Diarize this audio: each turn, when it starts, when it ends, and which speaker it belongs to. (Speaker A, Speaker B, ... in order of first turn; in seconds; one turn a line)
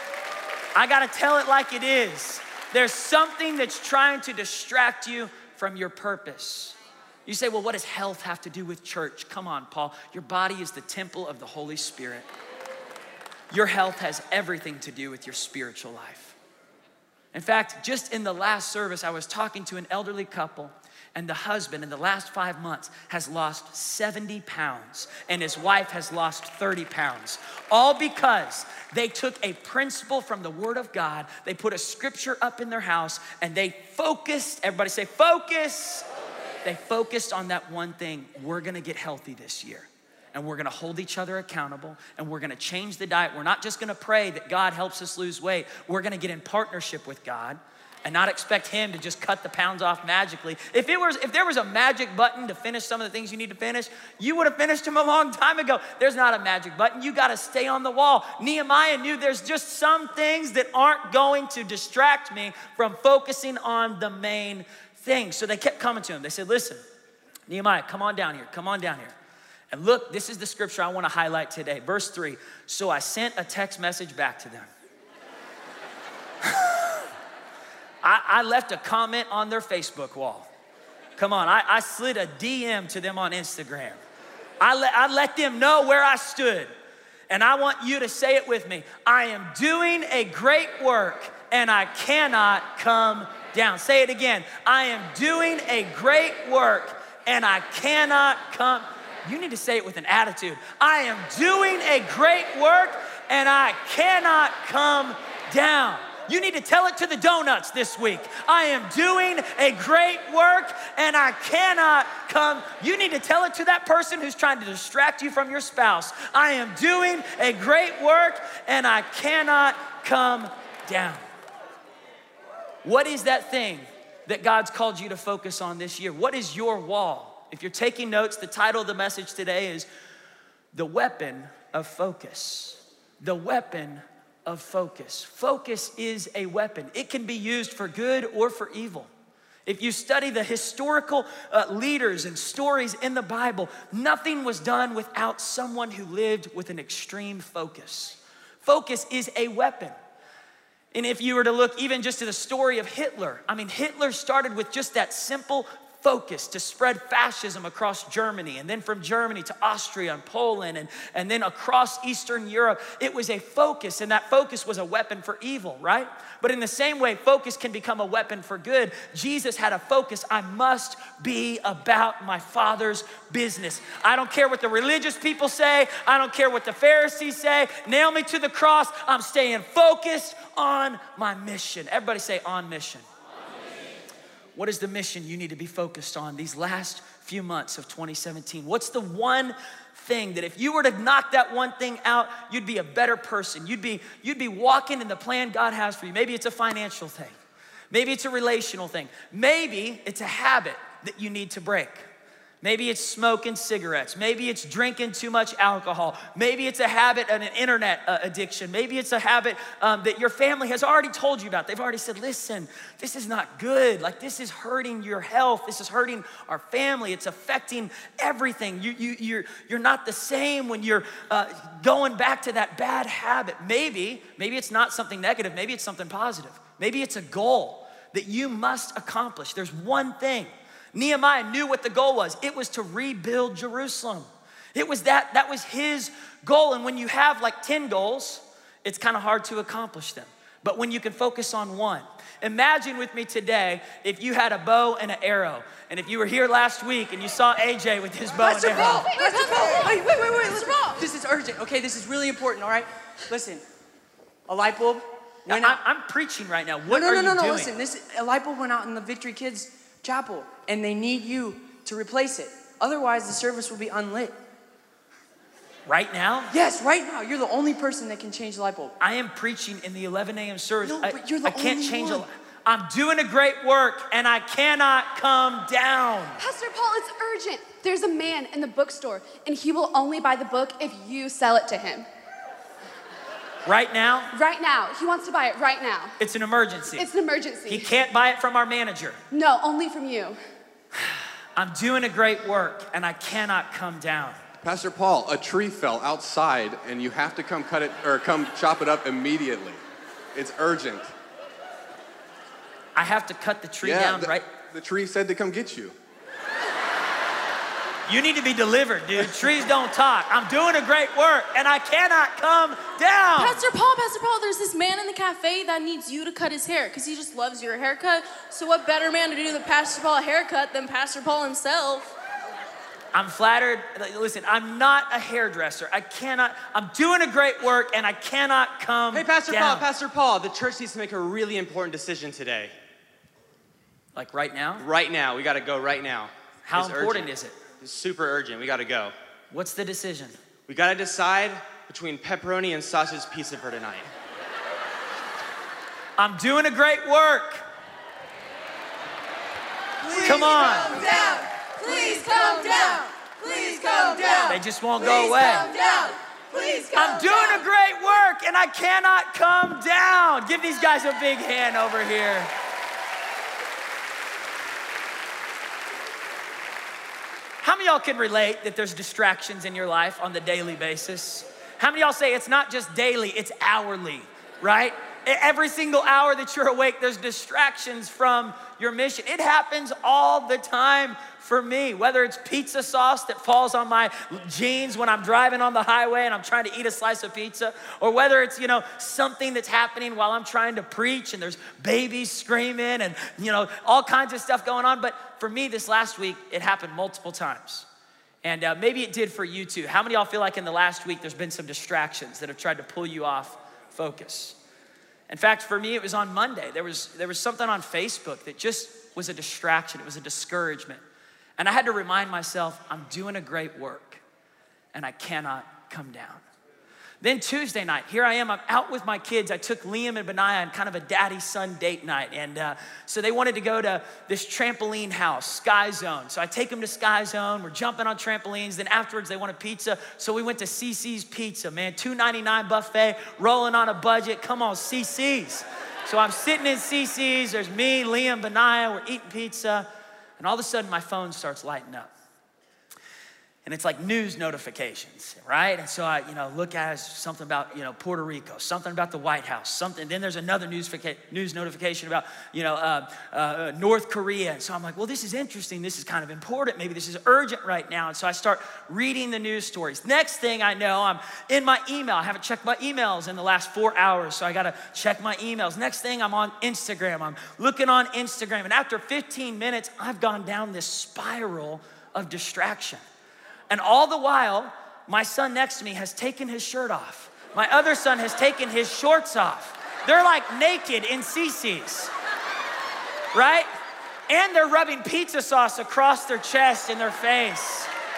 Speaker A: 0.8-6.8
Speaker A: 7.2-12.2
Speaker A: 13.5-16.4
Speaker A: 17.3-36.1
Speaker A: 36.6-66.8
Speaker A: 67.5-69.1
Speaker A: 69.7-74.7
Speaker A: 76.4-77.0
Speaker A: 78.0-80.5
Speaker A: 81.2-84.0
Speaker A: 84.6-86.7
Speaker A: 87.3-121.2
Speaker A: 122.8-129.9
Speaker A: 130.7-139.1
Speaker A: 139.7-149.9
Speaker A: 150.9-183.0
Speaker A: 184.6-197.3
Speaker A: 197.9-202.0
Speaker A: 202.6-249.1
Speaker B: 248.4-253.6
Speaker C: 248.7-250.9
Speaker D: 249.2-250.0
Speaker B: 254.5-255.8
Speaker A: 255.4-257.7
Speaker B: 256.9-264.3
Speaker A: 265.9-266.5
Speaker B: 266.5-268.9
Speaker A: 269.0-276.4
Speaker B: 270.8-272.3
Speaker C: 276.4-282.1
Speaker A: 283.7-284.3
Speaker C: 284.3-286.2
Speaker A: 286.2-287.1
Speaker C: 286.9-287.9
Speaker A: 287.7-289.2
Speaker C: 289.3-290.4
Speaker A: 291.0-294.4
Speaker E: 294.6-299.8
Speaker E: 300.3-301.1
Speaker A: 302.9-304.5
Speaker E: 303.8-305.9
Speaker A: 308.1-313.6
Speaker D: 313.4-322.2
Speaker A: 323.1-329.9
Speaker F: 329.1-332.7
Speaker A: 334.1-334.9
Speaker F: 334.8-339.1
Speaker A: 336.7-337.6
Speaker A: 339.5-340.4
Speaker F: 340.7-344.1
Speaker A: 346.2-347.6
Speaker B: 350.0-352.9
Speaker A: 350.2-350.9
Speaker D: 352.0-352.8
Speaker B: 353.5-357.5
Speaker A: 354.5-355.7
Speaker A: 356.9-362.5
Speaker A: 367.6-397.9
Speaker A: 398.4-404.6
Speaker A: 405.3-411.0
Speaker A: 411.6-414.2
Speaker A: 414.9-416.4
Speaker A: 417.2-439.9
Speaker A: 440.4-442.1
Speaker A: 443.6-473.0
Speaker A: 473.7-482.1
Speaker A: 483.3-483.7
Speaker A: 484.3-487.9